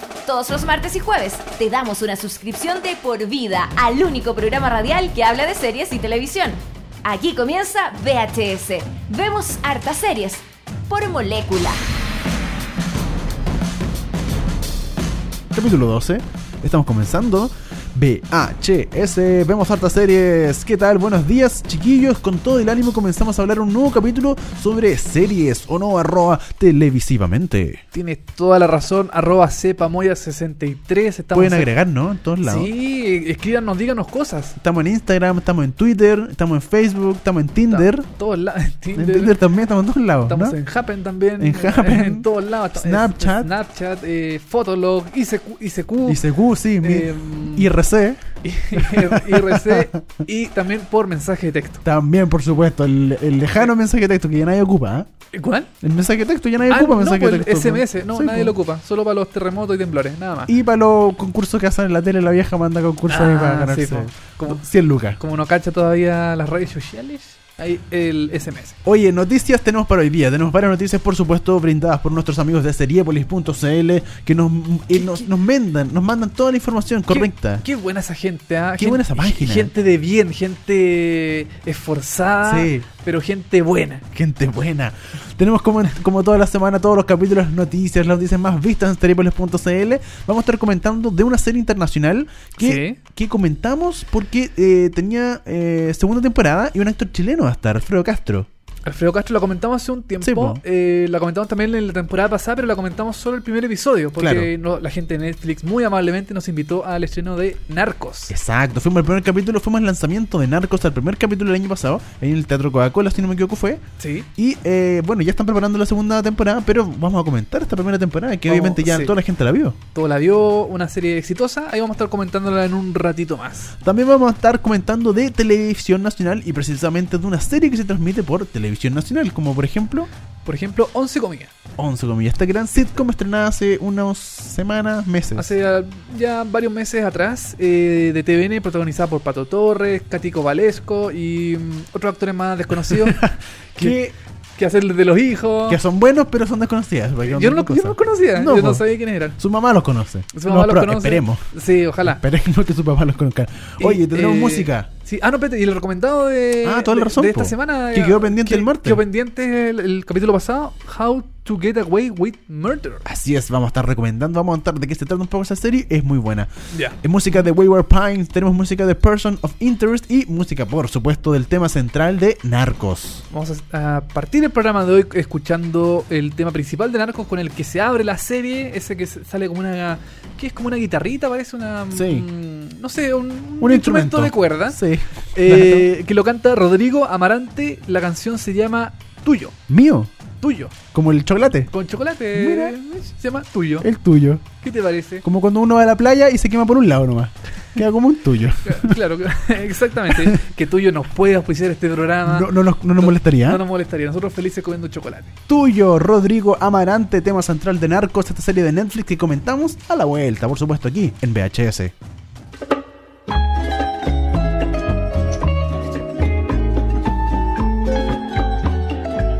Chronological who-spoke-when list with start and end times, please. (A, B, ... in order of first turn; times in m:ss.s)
0:00.2-0:11.8 A
0:15.5-0:27.8 B
0:27.9-0:31.7 C
0:31.3-0:32.7 B
0:32.4-0:34.6 C
0:34.6-0:38.1 B
0:37.7-0:39.4 C
0:38.9-0:40.6 B
0:40.2-0:46.2 C
0:41.4-0:43.5 B
0:46.0-0:48.2 B
0:46.8-0:47.7 C
0:48.4-0:51.8 C
0:48.7-0:50.0 B
0:51.8-0:55.1 B
0:55.3-0:55.7 C
0:55.8-0:58.5 B
0:56.7-1:00.5 C
1:00.5-1:05.2 B
1:03.1-1:04.6 C
1:05.2-1:08.8 C
1:08.8-1:17.6 B
1:14.9-1:15.3 C
1:17.1-1:24.0 C
1:18.8-1:19.7 B
1:22.4-1:22.9 B
1:24.1-1:38.5 B
1:32.6-1:33.0 C
1:38.8-1:48.3 C
1:40.2-1:40.6 B
1:44.2-1:44.5 B
1:48.3-1:53.8 B
1:54.0-1:54.3 C
1:54.4-1:59.8 B
1:58.4-1:59.2 C
1:59.9-2:03.7 C
2:03.8-2:10.1 B
2:10.4-2:11.5 C
2:11.8-2:15.5 B
2:15.4-2:24.0 C
2:22.9-2:24.1 B
2:24.6-2:25.8 C
2:25.7-2:28.8 B
2:27.2-2:29.4 C
2:29.4-2:31.4 B
2:30.3-2:32.2 C
2:32.0-2:34.9 B
2:33.8-2:43.0 C
2:36.6-2:39.0 B
2:43.0-2:46.5 B
2:46.7-2:47.0 C
2:47.0-2:53.2 B
2:53.3-3:04.8 C
3:01.9-3:02.2 B
3:03.6-3:05.9 B
3:05.3-3:09.5 C
3:09.7-3:10.1 B
3:10.4-3:10.7 C
3:10.9-3:11.7 B
3:11.7-3:13.9 C
3:12.3-3:12.8 B
3:13.8-3:14.4 B
3:14.6-3:15.2 C
3:15.2-3:19.0 B
3:18.6-3:25.4 C
3:20.1-3:20.4 B
3:22.2-3:23.6 B
3:25.5-3:31.9 B